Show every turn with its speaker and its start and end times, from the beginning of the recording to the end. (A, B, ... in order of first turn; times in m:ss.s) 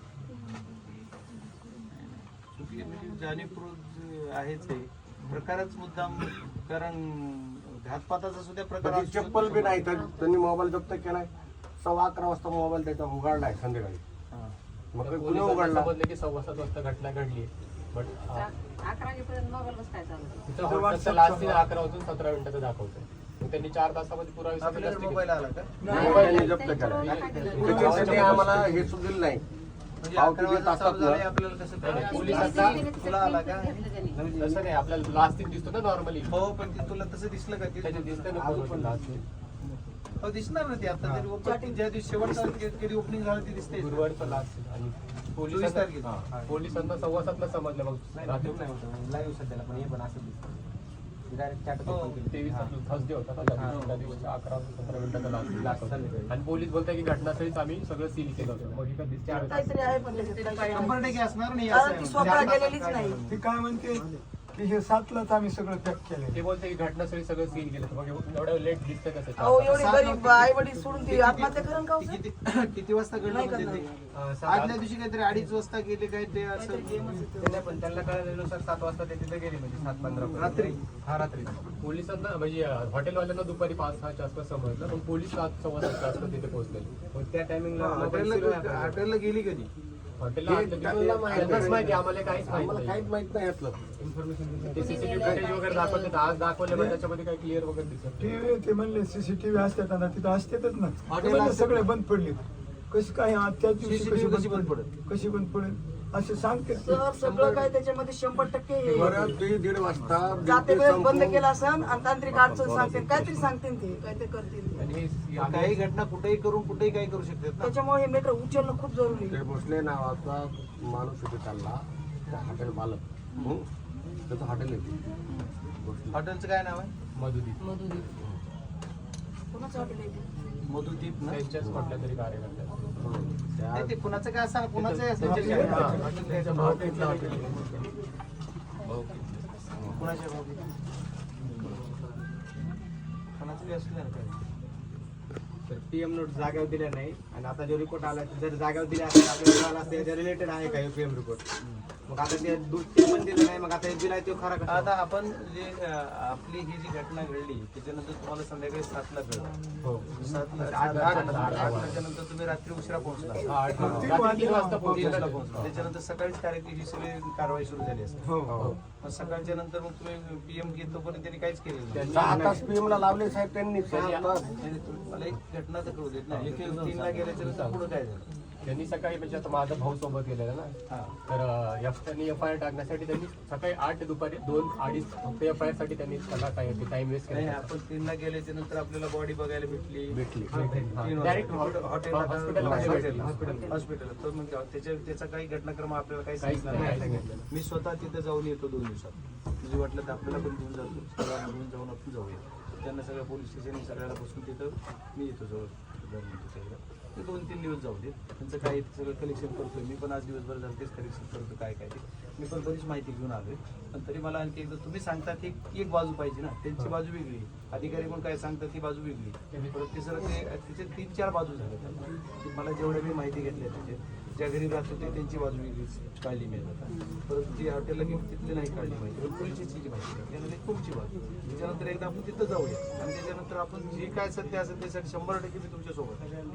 0:00.4-0:00.8 A
0:01.9-0:10.0 A
0:08.8-0:11.3 B
0:10.0-0:10.3 C
0:11.8-0:14.0 B
0:14.9-0:15.9 B
0:15.0-0:18.5 D
0:18.2-0:20.5 C
0:20.5-0:25.3 D
0:20.5-0:21.7 E
0:24.6-0:26.0 A
0:25.8-0:26.6 E
0:25.9-0:29.4 B
0:25.9-0:28.4 C
0:25.9-0:28.9 D
0:27.0-0:27.8 A
0:27.6-0:28.1 E
0:30.0-0:33.8 A
0:30.1-0:31.2 B
0:31.8-0:32.9 D
0:31.8-0:34.2 C
0:34.2-0:34.6 F
0:34.3-0:36.4 D
0:36.3-0:38.3 A
0:37.8-0:39.2 D
0:38.3-0:39.2 F
0:40.2-0:44.1 A
0:41.0-0:41.4 F
0:41.4-0:41.8 G
0:43.8-0:48.5 D
0:45.5-0:46.1 A
0:46.2-0:46.6 F
0:48.1-0:50.5 F
0:51.3-0:52.7 F
0:51.9-0:52.2 A
0:52.2-1:00.0 D
0:53.6-0:54.0 A
0:55.6-0:56.3 F
0:58.4-0:58.7 F
0:59.4-1:03.2 G
1:00.2-1:00.9 C
1:00.7-1:03.3 A
1:02.0-1:03.2 F
1:03.3-1:06.4 E
1:06.3-1:09.9 D
1:09.4-1:12.2 G
1:09.7-1:17.2 A
1:13.3-1:13.8 G
1:14.1-1:14.8 F
1:16.5-1:17.8 G
1:17.4-1:21.6 F
1:20.3-1:20.8 A
1:21.8-1:26.9 D
1:27.1-1:29.0 F
1:27.8-1:29.7 A
1:30.2-1:33.1 D
1:30.4-1:33.8 B
1:34.0-1:34.9 F
1:34.7-1:36.2 C
1:34.7-1:38.3 D
1:35.1-1:35.4 B
1:36.7-1:37.0 E
1:38.2-1:47.0 E
1:41.1-1:41.9 A
1:43.8-1:44.9 A
1:46.8-1:49.4 G
1:48.9-1:53.5 B
1:50.0-1:50.3 A
1:50.4-1:54.8 G
1:54.8-1:55.9 D
1:55.4-1:57.7 A
1:57.6-1:59.4 G
1:59.3-2:03.7 B
2:04.3-2:05.0 B
2:05.8-2:06.2 B
2:06.1-2:06.9 A
2:07.1-2:07.6 D
2:07.6-2:08.1 C
2:09.5-2:10.2 G
2:10.7-2:11.4 A
2:11.2-2:12.9 D
2:13.0-2:14.0 B
2:13.7-2:17.8 A
2:15.2-2:17.8 D
2:15.2-2:16.2 E
2:16.7-2:17.3 F
2:18.9-2:19.3 A
2:18.9-2:19.9 C
2:19.7-2:20.0 B
2:19.9-2:20.7 A
2:21.5-2:21.8 A
2:23.4-2:24.4 A
2:25.7-2:31.4 F
2:32.1-2:34.9 F
2:34.6-2:39.5 A
2:40.1-2:44.1 A
2:40.6-2:42.0 D
2:40.7-2:41.4 F
2:43.4-2:45.8 D
2:43.7-2:45.3 E
2:44.9-2:48.3 A
2:48.2-2:48.7 E
2:49.0-2:52.2 A
2:51.9-2:52.7 D
2:52.1-2:54.5 B
2:53.8-2:54.3 D
2:54.6-2:58.3 A
2:57.2-2:57.8 D
2:58.6-3:00.7 D
3:00.9-3:01.1 A
3:01.3-3:07.7 D
3:07.3-3:10.2 A
3:10.1-3:10.8 B
3:10.5-3:13.7 D
3:11.0-3:56.3 A
3:12.6-3:13.1 B
3:13.1-3:13.8 F
3:16.4-3:17.4 D